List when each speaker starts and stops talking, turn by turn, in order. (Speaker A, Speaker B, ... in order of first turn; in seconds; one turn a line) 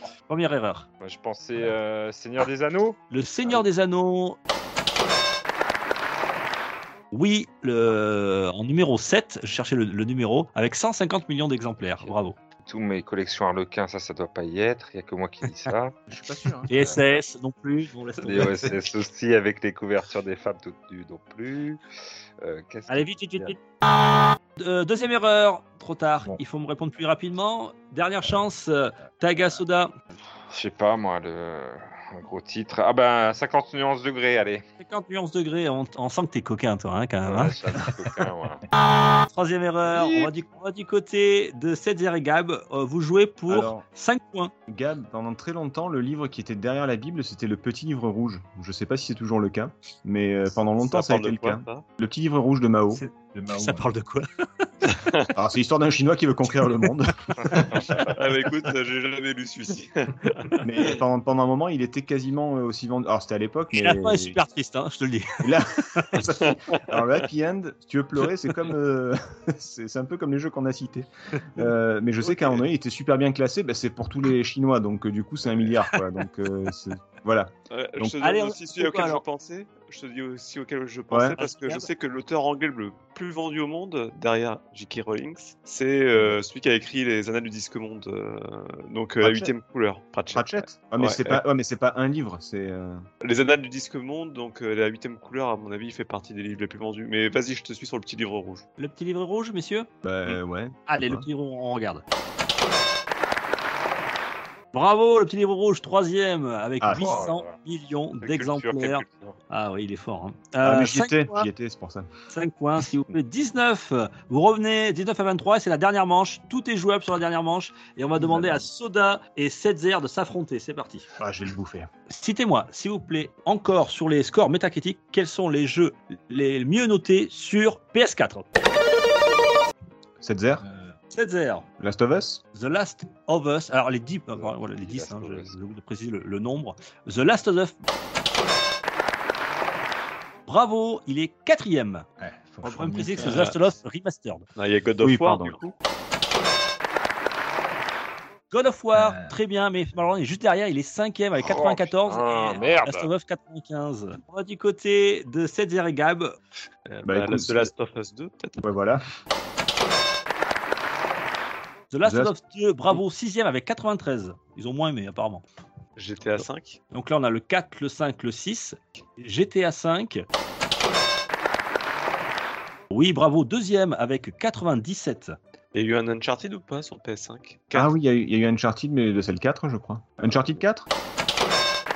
Speaker A: 0.3-0.8
Speaker B: 1.0-3.0
Speaker A: 3.1-4.4
Speaker A: 7.1-12.3
Speaker B: 12.6-15.9
Speaker C: 16.1-16.7
Speaker A: 16.7-18.5
Speaker B: 18.2-21.8
Speaker D: 18.3-18.7
Speaker B: 22.4-23.5
Speaker A: 22.9-23.6
Speaker A: 24.6-29.9
Speaker B: 30.5-34.6
Speaker A: 34.8-37.5
Speaker B: 37.2-38.6
Speaker A: 39.3-44.5
Speaker B: 39.9-40.3
Speaker C: 43.5-43.9
Speaker C: 44.7-53.0
Speaker E: 50.8-51.8
Speaker D: 52.9-53.9
Speaker A: 53.5-54.7
Speaker C: 55.3-57.3
Speaker D: 57.5-58.1
Speaker E: 58.1-61.0
Speaker C: 60.6-64.4
Speaker A: 63.7-66.1
Speaker C: 65.4-78.2
Speaker E: 66.4-66.8
Speaker E: 77.7-91.4
Speaker A: 78.2-79.2
Speaker C: 81.1-81.4
Speaker A: 81.4-81.9
Speaker C: 89.2-89.5
Speaker C: 90.3-93.0
Speaker E: 93.2-98.6
Speaker A: 98.8-99.9
Speaker C: 100.0-101.2
Speaker A: 100.9-102.0
Speaker A: 104.7-111.5
Speaker C: 106.8-107.2
Speaker B: 107.0-107.5
Speaker B: 108.2-109.3
Speaker C: 110.6-112.1
Speaker A: 112.3-121.1
Speaker C: 118.2-118.6
Speaker C: 121.2-121.9
Speaker A: 122.1-128.4
Speaker C: 130.2-130.6
Speaker D: 130.6-130.9
Speaker A: 131.1-131.7
Speaker C: 131.8-132.4
Speaker A: 132.5-137.7
Speaker B: 134.4-135.5
Speaker A: 140.5-142.1
Speaker D: 142.2-143.6
Speaker A: 142.6-144.4
Speaker E: 143.2-143.5
Speaker E: 144.6-145.7
Speaker C: 145.0-145.6
Speaker A: 148.5-156.3
Speaker D: 148.9-149.3
Speaker B: 151.4-153.1
Speaker E: 156.8-158.6
Speaker C: 157.0-157.7
Speaker C: 158.6-159.0
Speaker A: 161.9-165.4
Speaker C: 162.0-162.3
Speaker E: 165.9-166.8
Speaker A: 166.9-170.2
Speaker A: 172.9-175.3
Speaker E: 175.7-177.9
Speaker C: 177.7-180.9